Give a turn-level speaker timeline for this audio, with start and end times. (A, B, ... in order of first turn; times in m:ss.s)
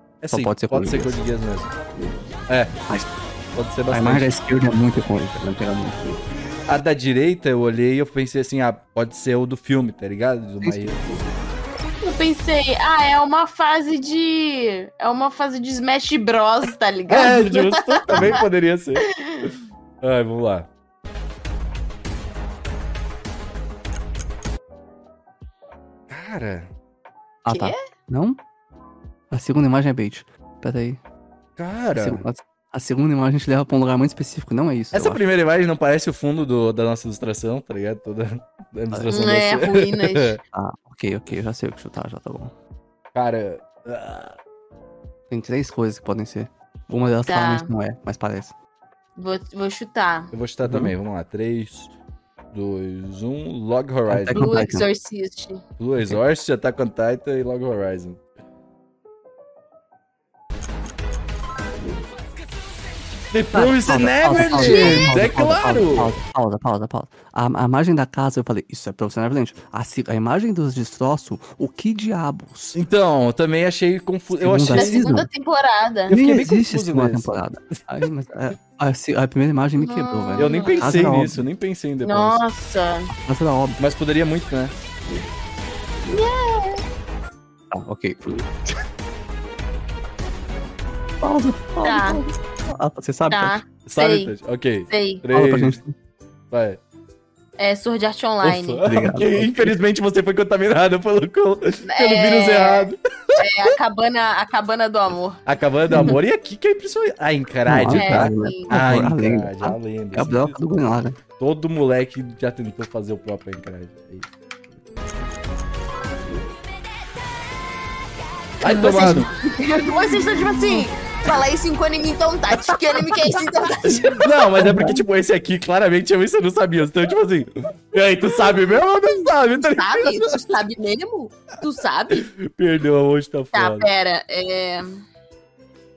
0:00.2-0:01.7 A
0:00.3-0:01.2 B
0:02.5-0:02.8 A
0:03.5-0:04.3 A
0:03.9-0:06.2 B
0:06.7-0:11.0 A
0:10.6-0:11.0 B
0:12.0-0:18.4 C
0:17.1-0:19.5 A
0:19.2-0:19.5 C
0:20.0-0:20.7 A
0:26.1-0:26.7 A
0:27.4-0:28.4 B
0:27.5-0:27.8 C
0:29.3-0:31.0 B
0:31.6-0:32.2 A
0:31.9-0:35.2 B
0:34.9-0:40.4 A
0:39.1-0:40.4 C
0:40.5-0:42.5 B
0:43.1-0:44.4 A
0:45.3-0:48.5 B
0:47.2-0:47.7 C
0:49.2-0:50.3 C
0:50.3-0:51.9 A
0:50.6-0:50.9 B
0:52.5-0:54.5 A
0:54.1-0:54.8 B
0:54.3-0:55.6 C
0:55.8-0:58.2 A
1:03.3-1:06.1 A
1:03.5-1:12.8 B
1:04.4-1:05.1 C
1:12.7-1:15.1 A
1:14.4-1:15.3 B
1:14.7-1:16.1 C
1:16.1-1:17.3 A
1:16.1-1:21.4 B
1:19.8-1:20.9 C
1:20.4-1:22.4 A
1:22.0-1:23.1 C
1:23.3-1:23.8 B
1:23.8-1:24.7 A
1:26.1-1:26.8 C
1:27.7-1:28.5 B
1:31.2-1:33.6 B
1:31.8-1:32.2 C
1:33.3-1:34.3 C
1:33.8-1:35.8 A
1:34.9-1:35.2 C
1:35.3-1:35.9 B
1:36.5-1:36.8 A
1:37.6-1:38.8 C
1:38.4-1:43.4 A
1:38.8-1:39.8 B
1:41.8-1:45.4 C
1:45.4-1:50.6 A
1:45.9-1:46.2 B
1:47.6-1:51.2 B
1:47.9-1:48.8 C
1:51.4-1:54.3 A
1:58.6-1:59.3 A
1:58.6-1:59.3 B
1:58.6-2:04.4 C
2:02.7-2:10.6 A
2:04.6-2:05.0 B
2:09.6-2:12.3 C
2:12.2-2:13.9 A
2:13.5-2:15.0 C